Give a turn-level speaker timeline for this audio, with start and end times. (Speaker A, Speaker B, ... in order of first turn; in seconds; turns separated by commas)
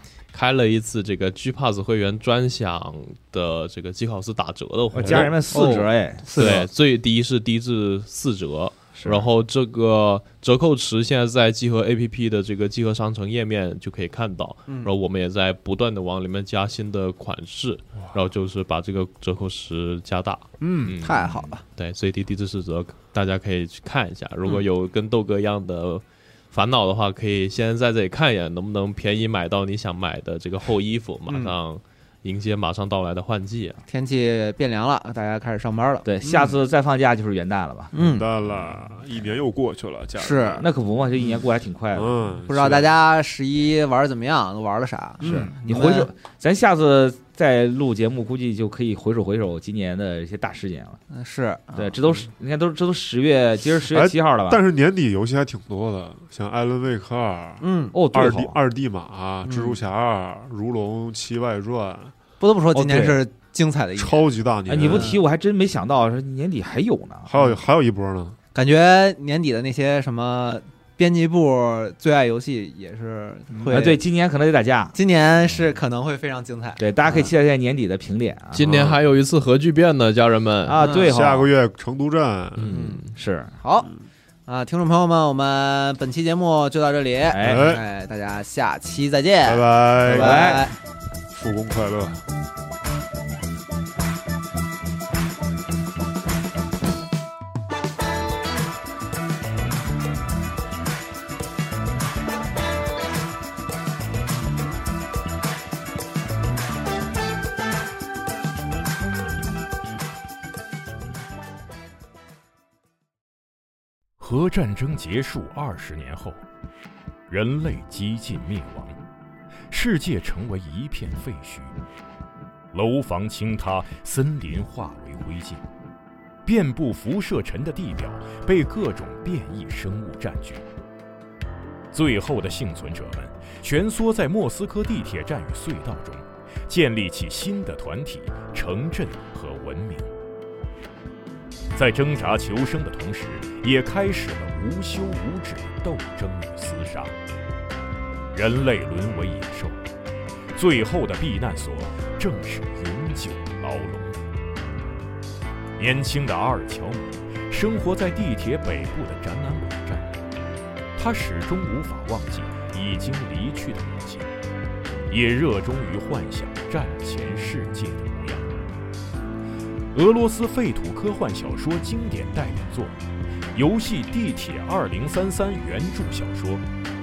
Speaker A: 0.3-33.8, Speaker B: 4.9-6.6, Speaker C: 5.0-5.3, Speaker D: 5.5-6.7, Speaker B: 8.9-9.3, Speaker C: 20.6-20.9, Speaker D: 21.0-21.6, Speaker D: 31.3-31.5, Speaker D: 33.9-36.6, Speaker B: 36.0-37.9, Speaker D: 37.9-38.3, Speaker C: 37.9-40.7, Speaker D: 40.2-40.7, Speaker B: 40.6-42.3, Speaker C: 41.9-42.9, Speaker D: 42.5-46.1, Speaker C: 45.2-45.5, Speaker B: 45.2-51.0, Speaker D: 51.1-52.0, Speaker B: 51.7-54.6, Speaker C: 53.9-62.1, Speaker D: 57.6-58.0, Speaker B: 57.9-58.6, Speaker D: 59.4-59.8, Speaker D: 62.4-64.3, Speaker B: 62.7-63.2, Speaker C: 64.0-65.1, Speaker B: 64.7-67.3, Speaker D: 64.8-65.2, Speaker C: 67.3-68.4, Speaker D: 68.5-74.0, Speaker B: 73.7-75.0, Speaker D: 74.9-77.3, Speaker B: 76.8-78.7, Speaker A: 78.5-80.8, Speaker C: 78.6-79.0, Speaker B: 80.6-81.5, Speaker D: 80.8-81.1, Speaker C: 81.0-82.8, Speaker A: 82.5-83.1, Speaker D: 82.7-83.1, Speaker B: 83.1-83.5, Speaker D: 83.6-83.9, Speaker D: 84.5-90.7, Speaker B: 87.3-87.7, Speaker C: 87.4-87.8, Speaker C: 89.4-90.5, Speaker B: 90.0-90.7, Speaker C: 91.3-92.2, Speaker E: 114.2-116.4, Speaker E: 117.3-119.0, Speaker E: 119.7-121.8, Speaker E: 122.7-125.6, Speaker E: 126.4-130.6, Speaker E: 131.9-140.1, Speaker E: 141.7-147.1, Speaker E: 148.3-149.8, Speaker E: 150.5-154.2, Speaker E: 155.8-160.1, Speaker E: 160.9-164.3, Speaker E: 165.1-168.7, Speaker E: 169.9-173.0, Speaker E: 173.5-176.6